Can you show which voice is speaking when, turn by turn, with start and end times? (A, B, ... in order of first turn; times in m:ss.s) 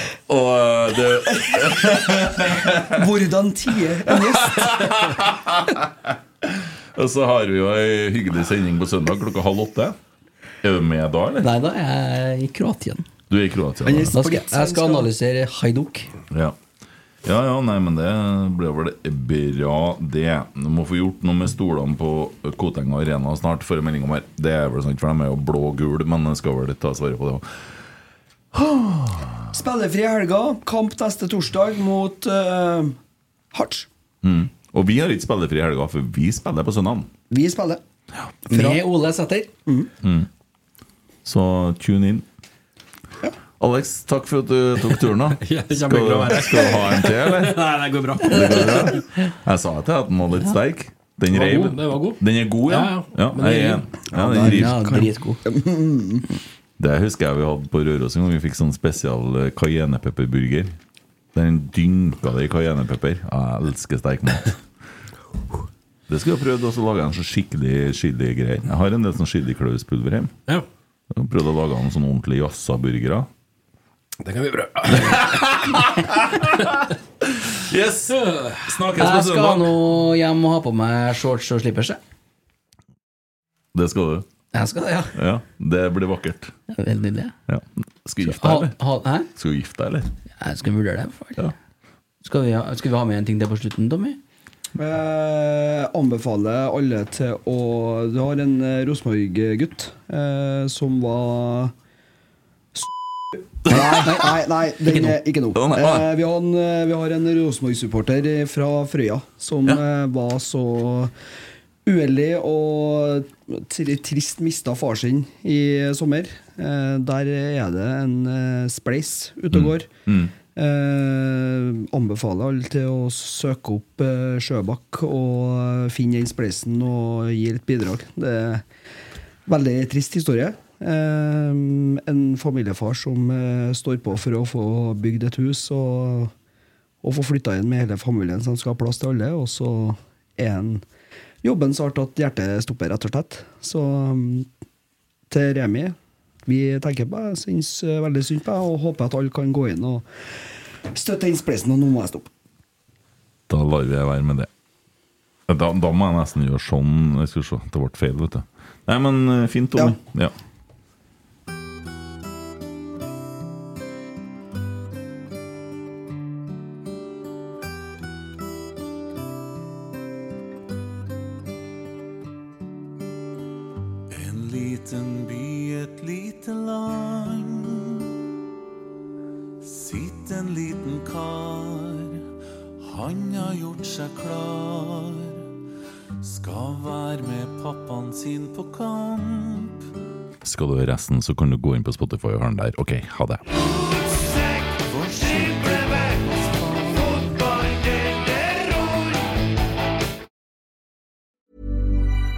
0:00.3-0:03.0 A
0:02.9-0:04.8 B
0:04.1-0:10.0 A
0:10.6-0:11.5 A
0:11.4-0:13.1 C
0:13.3-0:14.2 A
0:13.8-0:15.1 B
0:14.1-0:16.1 C
0:16.3-0:16.6 A
0:17.2-0:27.6 A
0:28.5-0:29.4 A
0:29.5-0:33.0 B
0:33.5-0:33.9 B
0:34.2-0:37.1 A
0:37.3-0:37.8 B
0:38.5-0:39.5 C
0:38.5-0:38.8 B
0:39.7-0:39.9 B
0:40.0-0:40.3 A
0:41.2-0:42.2 A
0:43.6-0:47.6 A
0:45.4-0:49.0 D
0:48.2-0:54.8 A
0:51.3-0:53.9 D
0:54.1-0:56.2 B
0:54.4-0:55.4 C
0:56.8-1:00.8 A
1:01.3-1:04.6 A
1:06.1-1:10.3 A
1:11.1-1:13.3 A
1:14.2-1:15.5 D
1:14.9-1:19.8 A
1:18.2-1:18.6 D
1:19.0-1:22.0 C
1:23.7-1:24.3 A
1:24.5-1:25.2 C
1:25.2-1:26.5 A
1:26.7-1:27.3 C
1:27.5-1:28.8 A
1:28.2-1:29.3 C
1:29.4-1:30.1 A
1:30.4-1:31.5 C
1:32.2-1:34.2 C
1:34.8-1:41.7 B
1:43.6-1:51.1 B
1:43.7-1:44.3 A
1:45.5-1:46.1 A
1:51.8-1:59.9 B
1:59.5-2:00.3 A
2:00.5-2:08.6 B
2:09.5-2:16.3 B
2:17.0-2:20.8 B
2:21.4-2:24.5 B
2:25.3-2:30.1 B
2:30.9-2:32.3 B
2:33.5-2:34.5 A
2:35.5-2:40.3 A
2:54.1-2:58.1 E
2:59.6-3:02.2 E
3:02.8-3:05.5 E
3:06.2-3:09.8 E
3:10.4-3:13.4 A
3:13.5-3:19.2 E